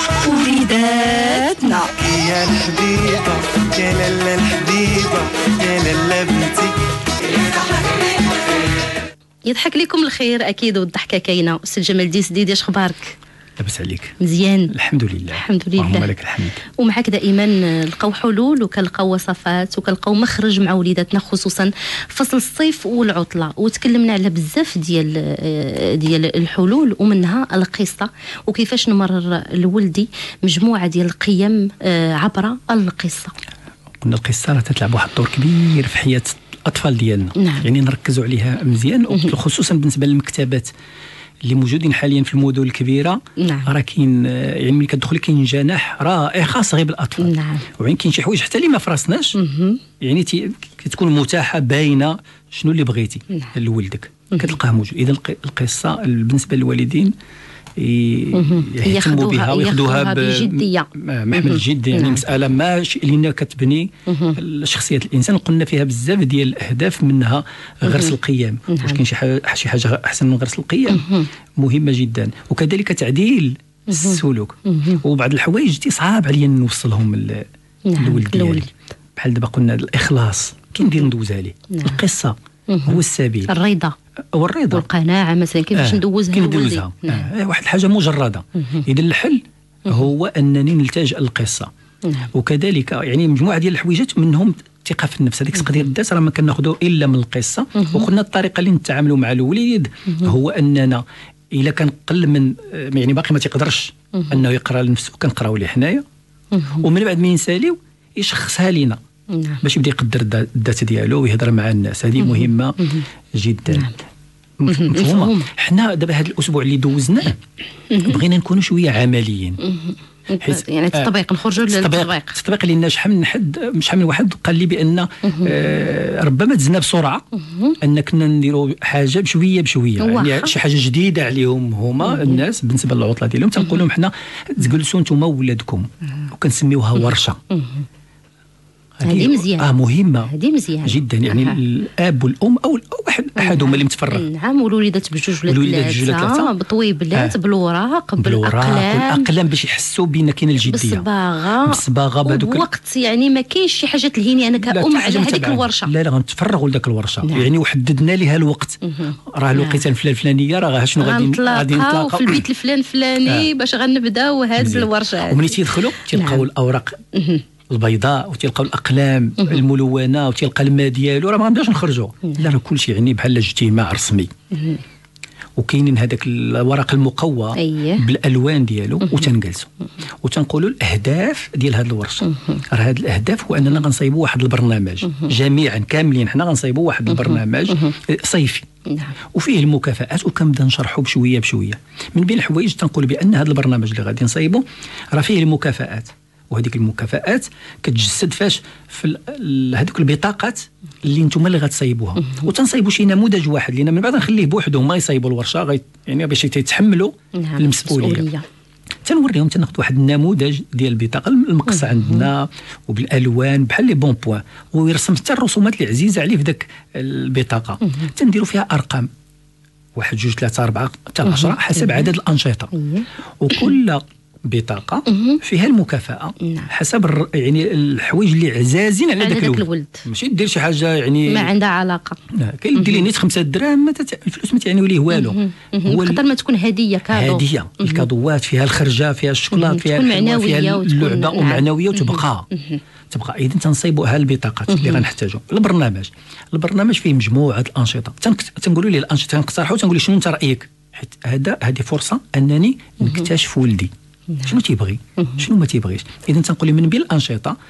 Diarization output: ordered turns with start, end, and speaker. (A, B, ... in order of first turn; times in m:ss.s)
0:00.2-0:01.7 A
0:00.2-0:06.7 B
0:07.3-0:08.5 B
0:09.4-0:13.2 A
0:13.6-0:14.2 C
0:14.2-0:14.7 A
0:14.7-0:16.6 C
0:15.4-0:16.1 A
0:16.7-0:33.3 A
0:34.0-0:40.7 C
0:37.4-0:37.6 A
0:41.4-0:49.4 C
0:43.4-0:43.7 A
0:47.2-0:47.7 A
0:49.3-0:49.8 A
0:50.0-0:57.1 C
0:57.8-1:17.5 C
0:58.3-1:02.2 A
1:04.1-1:04.4 A
1:07.8-1:08.1 A
1:08.7-1:09.0 A
1:10.9-1:11.3 A
1:13.9-1:15.0 A
1:17.8-1:18.7 A
1:18.0-1:18.6 C
1:19.2-1:23.5 C
1:21.7-1:22.0 A
1:22.7-1:23.9 A
1:24.3-1:24.8 C
1:24.7-1:27.3 A
1:25.7-1:31.7 C
1:32.3-1:46.0 C
1:37.8-1:38.0 A
1:44.1-1:44.4 A
1:46.5-1:46.8 A
1:46.8-1:49.0 C
1:49.3-1:49.6 A
1:49.6-1:52.8 C
1:52.2-1:53.0 A
1:53.3-1:53.9 C
1:54.6-1:57.4 C
1:54.7-1:55.5 A
1:57.9-1:58.2 A
1:58.0-1:59.6 C
1:59.6-2:02.4 A
2:00.4-2:01.1 C
2:01.7-2:07.2 C
2:05.2-2:05.5 A
2:07.4-2:07.7 A
2:07.8-2:17.4 C
2:10.0-2:10.5 A
2:12.0-2:12.4 A
2:17.5-2:17.8 A
2:19.0-2:20.3 C
2:19.0-2:19.7 A
2:20.3-2:21.6 A
2:20.8-2:24.2 C
2:23.4-2:29.3 A
2:25.4-2:26.5 C
2:28.2-2:31.0 C
2:30.6-2:35.9 A
2:31.6-2:32.6 C
2:34.6-2:42.4 C
2:38.8-2:39.8 A
2:41.0-2:46.4 A
2:44.6-2:47.0 C
2:47.1-2:47.4 A
2:47.7-2:54.3 C
2:54.5-2:54.8 A
2:55.6-2:59.7 C
2:57.6-2:58.0 A
3:00.2-3:08.6 C
3:02.2-3:02.6 A
3:07.2-3:07.9 A
3:08.9-3:09.2 A
3:09.3-3:28.2 C
3:27.4-3:28.4 A
3:29.0-3:39.1 C
3:32.0-3:32.3 A
3:40.0-3:42.7 C
3:41.2-3:42.1 A
3:42.7-3:43.7 A
3:43.4-3:51.5 C
3:45.1-3:45.4 A
3:46.4-3:46.7 A
3:49.2-3:50.0 A
3:51.3-3:52.2 A
3:52.3-3:56.2 C
3:52.7-3:53.1 A
3:55.1-3:58.0 A
3:57.1-4:02.4 C
3:59.5-4:02.8 A
4:03.1-4:13.9 C
4:04.7-4:05.0 A
4:14.4-4:17.6 C